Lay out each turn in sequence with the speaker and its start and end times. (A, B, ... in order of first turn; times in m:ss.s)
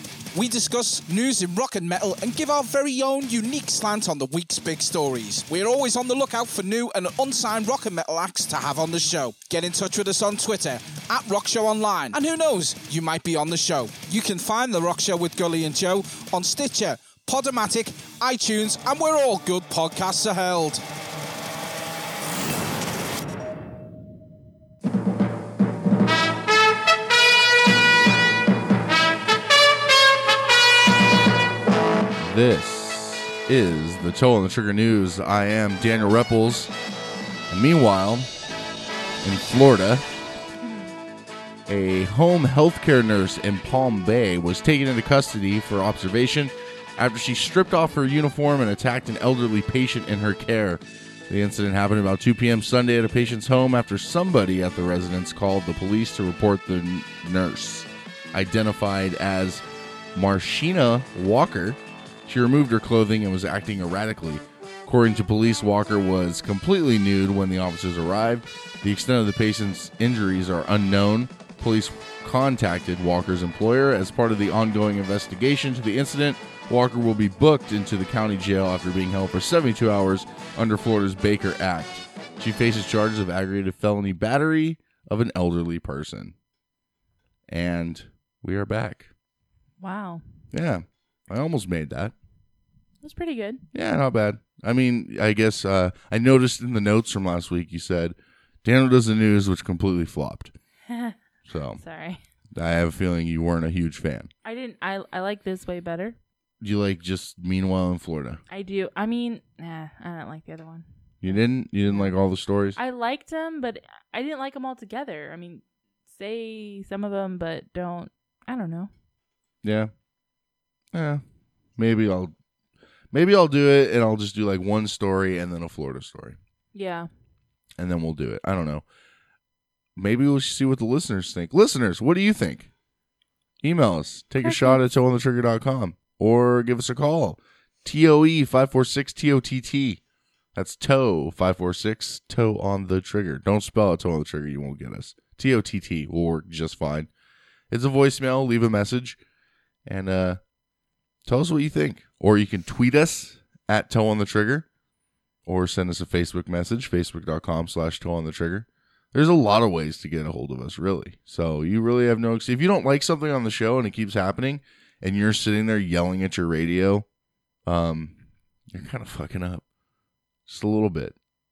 0:00.3-0:20.8 A
0:32.1-0:36.7 B
0:37.5-0:38.3 B
0:39.2-0:40.0 B
0:40.6-0:40.9 C
0:41.7-1:26.3 B
1:27.5-1:29.1 B
1:29.8-1:30.2 C
1:30.5-1:32.1 B
1:33.0-1:33.6 C
1:33.7-1:40.5 B
1:40.9-1:41.2 C
1:41.5-1:41.8 B
1:41.8-1:42.2 C
1:42.5-1:44.3 B
1:44.4-1:46.2 C
1:46.6-1:48.4 B
1:48.5-1:52.1 C
1:51.2-1:52.8 B
1:52.8-1:58.9 C
1:59.6-1:59.9 B
2:00.9-2:01.2 B
2:01.8-2:02.3 B
2:03.1-2:06.4 B
2:06.7-2:07.1 C
2:07.8-2:08.8 B
2:10.0-2:12.7 B
2:13.6-2:20.0 B
2:14.4-2:14.8 C
2:20.5-2:27.1 B
2:27.7-2:29.2 B
2:29.8-2:30.4 B
2:31.2-2:34.6 B
2:35.4-2:47.0 B
2:47.6-2:48.2 B
2:48.7-2:49.6 B
2:50.5-2:51.2 B